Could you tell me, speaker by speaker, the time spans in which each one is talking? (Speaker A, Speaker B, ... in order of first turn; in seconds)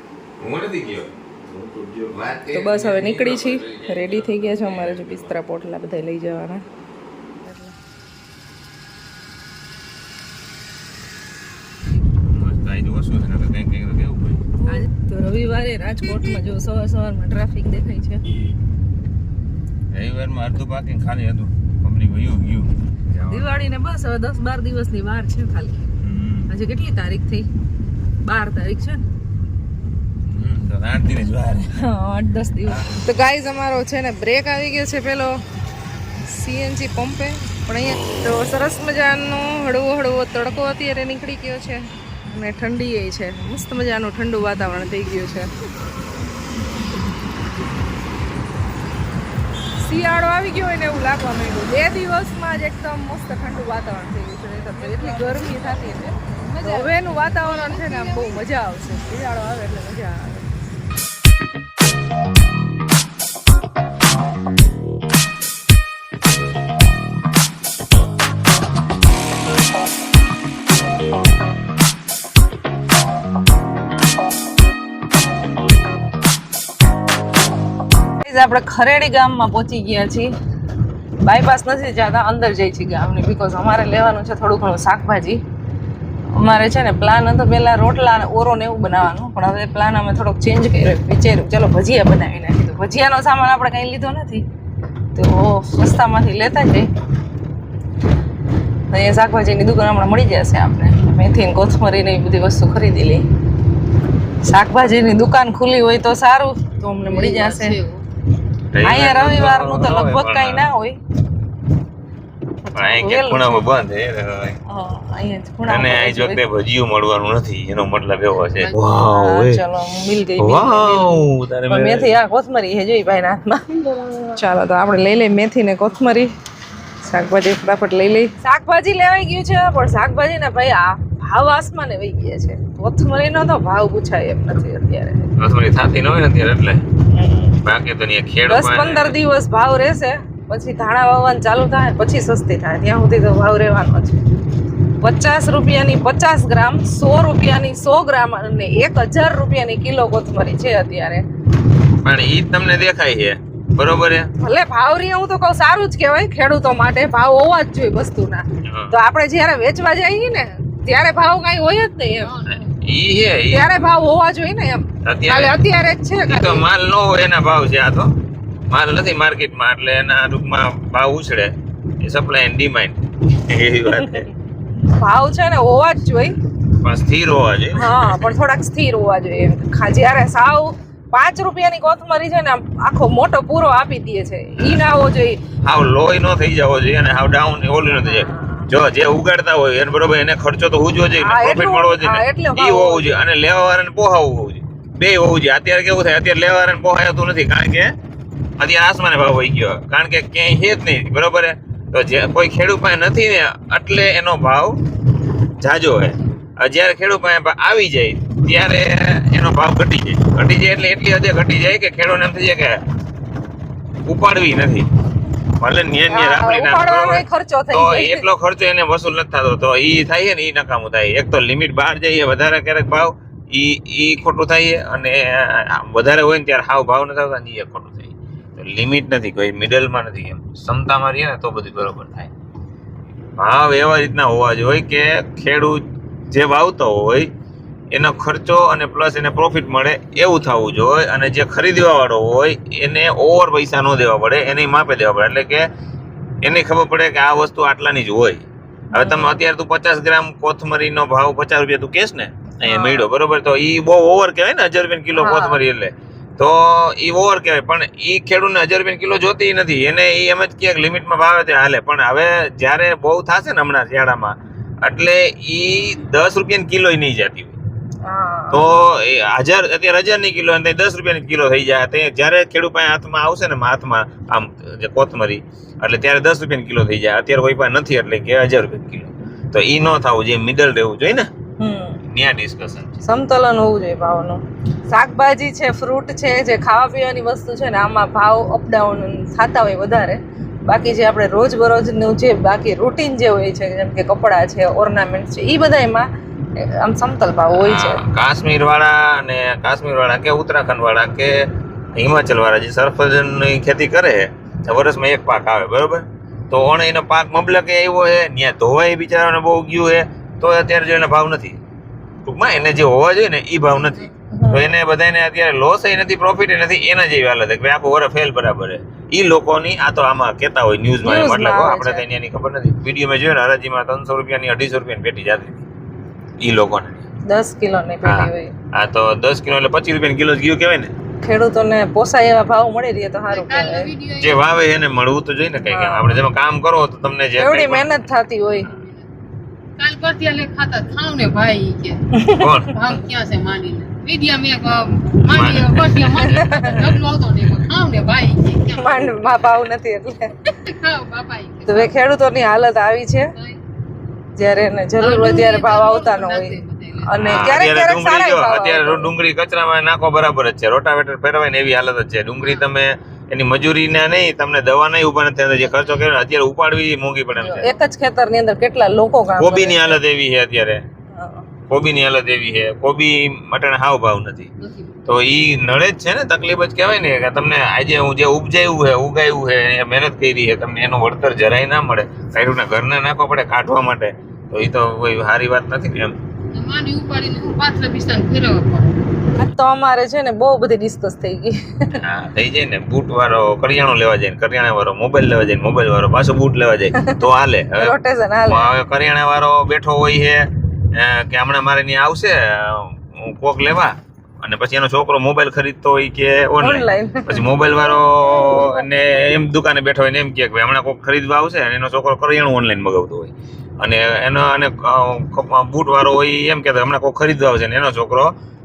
Speaker A: 0.4-5.3, 12.2-14.6, 19.9-23.6, 26.0-26.5, 30.2-31.8, 32.7-33.0, 108.7-110.7, 112.8-114.6, 115.7-119.6, 120.4-122.1, 135.4-136.9, 137.6-139.2, 152.0-154.3, 158.7-158.9, 162.5-163.7, 165.1-165.6, 166.2-168.2, 168.7-174.3, 176.6-178.3, 184.6-184.8, 185.6-197.9, 198.6-204.8, 205.6-212.8, 214.1-214.9, 215.6-232.3, 233.4-237.3, 237.9-245.7, 246.4-267.6, 268.5-281.3, 282.1-283.0, 297.5-311.6, 312.2-325.7, 326.4-327.1, 328.1-330.9, 334.2-337.9, 342.4-342.9, 345.3-346.9, 357.1-367.8, 369.4-370.8, 371.7-374.5, 375.1-386.1, 392.0-397.9, 398.5-418.3
Speaker B: 2.5-6.6, 7.4-7.8, 14.6-18.2, 23.3-25.9, 26.5-27.5, 28.2-29.0, 31.8-35.4, 36.3-45.5, 49.8-60.5, 78.2-80.3, 81.2-85.4, 86.3-94.5, 95.2-96.9, 98.9-103.2, 104.5-107.8, 108.8-111.0, 112.7-113.7, 114.7-116.4, 118.6-123.6, 124.4-126.3, 127.0-135.3, 137.1-137.6, 138.5-144.2, 145.0-151.2, 154.4-162.3, 163.5-166.7, 174.9-176.4, 177.8-185.4, 188.0-188.7, 191.2-193.2, 216.1-218.3, 248.9-249.4, 252.6-253.1, 255.2-255.6, 268.1-268.7, 281.6-282.0, 283.0-298.0, 314.3-314.7, 321.0-322.1, 327.3-328.5, 331.2-333.9, 335.6-336.2, 337.4-338.7, 342.1-342.5, 346.3-346.7, 348.8-350.3, 351.7-353.3, 354.4-359.1, 367.4-370.0, 371.1-371.5, 389.4-391.9, 397.8-398.7, 406.6-408.8
Speaker C: 54.8-58.4, 107.1-108.0, 123.8-124.2, 162.2-162.8, 333.3-334.5, 338.6-339.1, 339.8-342.2, 342.7-349.1, 350.7-351.9, 355.0-357.2, 374.6-374.9, 386.5-389.1